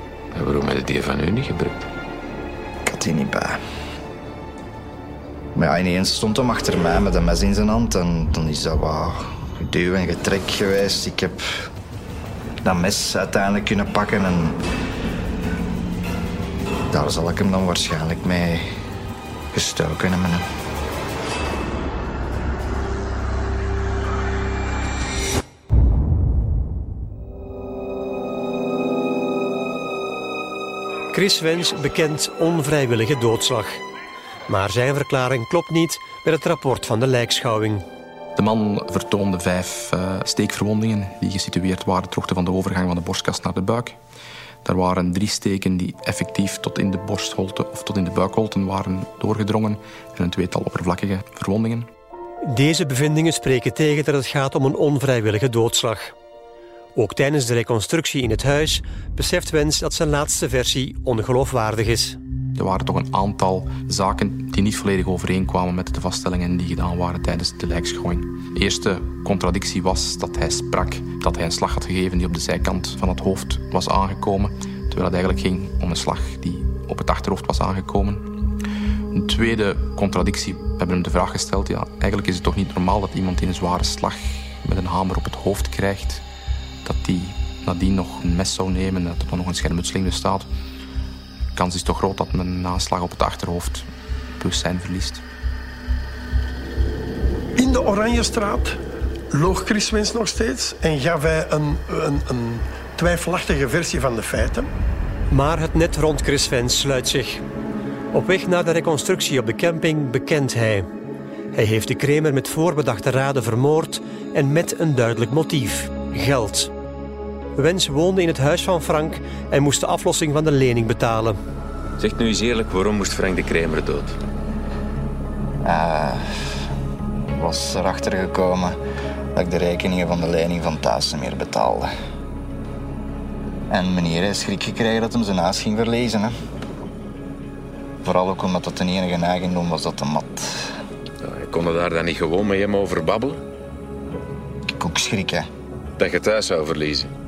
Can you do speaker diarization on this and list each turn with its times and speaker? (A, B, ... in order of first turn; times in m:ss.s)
0:00.3-0:01.9 A
0:02.8-0:03.6 B
0:05.6-0:11.7 B
0:12.6-0:14.6 B
0:16.9-0:18.7 B
0:19.5-0:20.4 B
0:31.1-0:33.8 C
0:34.5-0:37.8 C
0:38.4-0:44.0 D
0:44.6-0:51.9 D
0:52.4-0:56.1 C
0:57.0-1:02.2 C
1:02.6-1:18.2 D
1:19.1-1:26.2 D
1:26.8-1:30.5 D
1:31.5-1:35.2 D
1:37.6-1:38.8 E
1:39.3-1:44.7 E
1:45.3-1:47.4 C
1:48.1-1:50.9 C
1:51.5-1:56.7 C
1:57.6-2:01.4 C
2:02.0-2:04.2 A
2:05.6-2:06.7 B
2:07.3-2:08.8 B
2:09.4-2:11.9 B
2:13.7-2:16.3 B
2:18.0-2:20.8 B
2:21.2-2:23.4 A
2:24.7-2:25.5 B
2:26.0-2:27.1 A